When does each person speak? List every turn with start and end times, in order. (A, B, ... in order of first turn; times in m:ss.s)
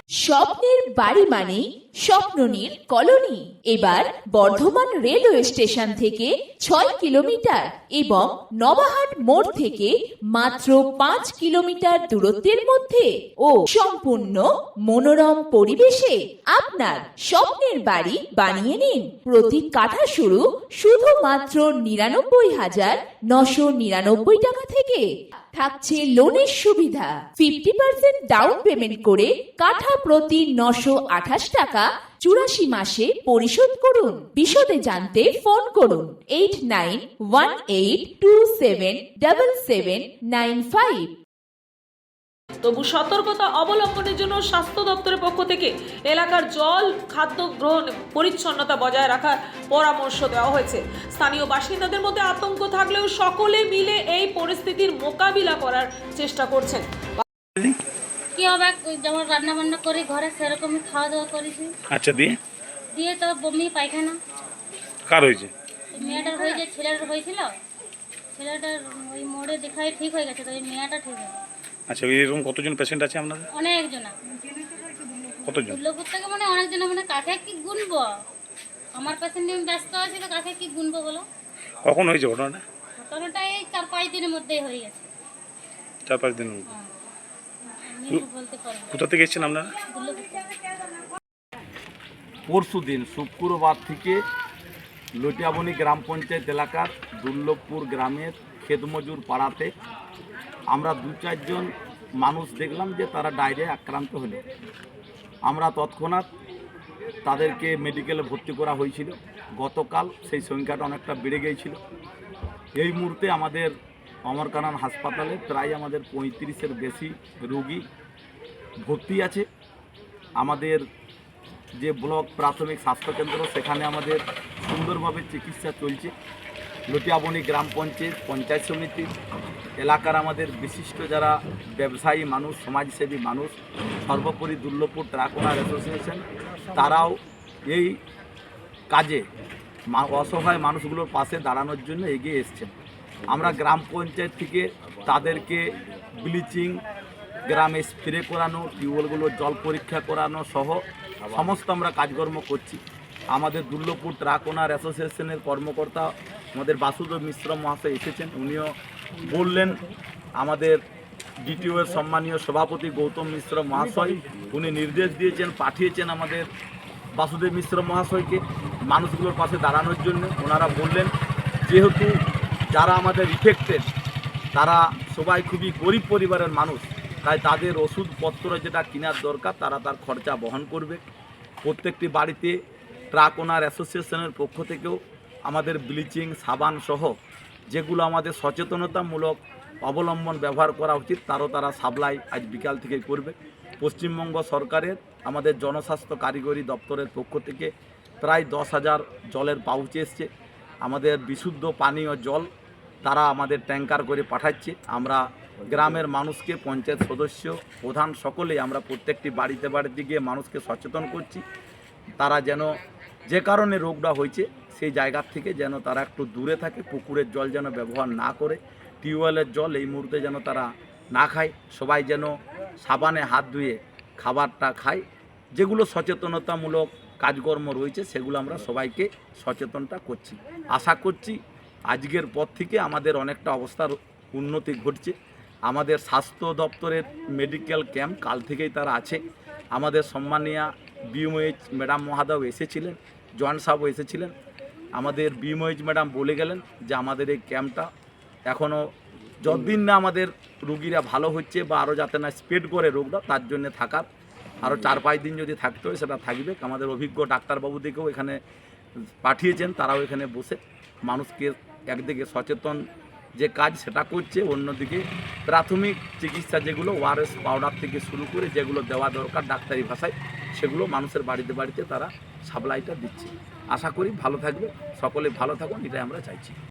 0:00.2-0:41.1 A
0:42.6-0:57.2 B
0:58.3-1:01.7 C
1:01.9-1:02.4 D
1:03.0-1:04.2 C
1:05.1-1:05.5 D
1:05.9-1:07.5 C
1:08.4-1:11.4 C
1:11.9-1:13.5 D
1:13.5-1:14.1 C
1:15.4-1:15.8 D
1:15.6-1:18.1 C
1:19.0-1:21.2 C
1:21.8-1:22.6 D
1:23.0-1:25.1 C
1:26.1-1:26.7 D
1:27.9-1:28.9 C
1:28.9-1:29.7 D
1:29.9-1:30.6 C
1:32.5-1:34.2 E
1:35.2-1:39.7 E
1:40.7-1:44.4 E
1:45.4-1:46.3 E
1:47.2-1:51.8 E
1:52.8-1:53.7 E
1:54.3-1:57.8 E
1:58.8-1:59.5 E
2:00.4-2:00.8 E
2:01.8-2:06.1 E
2:06.9-2:09.1 E
2:09.8-2:18.0 E
2:18.9-2:19.2 E
2:19.9-2:22.7 E
2:23.3-2:25.6 E
2:26.2-2:26.8 E
2:27.4-2:32.8 E
2:33.3-2:39.8 E
2:40.4-2:40.8 E
2:41.4-2:46.5 E
2:47.1-2:51.1 E
2:51.6-2:52.2 E
2:52.7-2:53.8 E
2:54.5-3:01.0 E
3:01.6-3:02.6 E
3:03.1-3:07.1 E
3:07.7-3:20.3 E
3:20.8-3:22.5 E
3:23.0-3:31.4 E
3:32.2-3:32.8 E
3:33.3-3:45.0 E
3:45.5-3:51.4 E
3:51.9-3:55.1 E
3:55.6-3:59.2 E
3:59.7-4:04.3 E
4:05.0-4:07.9 E
4:08.5-4:08.8 E
4:09.4-4:14.0 E
4:14.6-4:18.4 E
4:19.2-4:22.8 E
4:23.4-4:36.6 E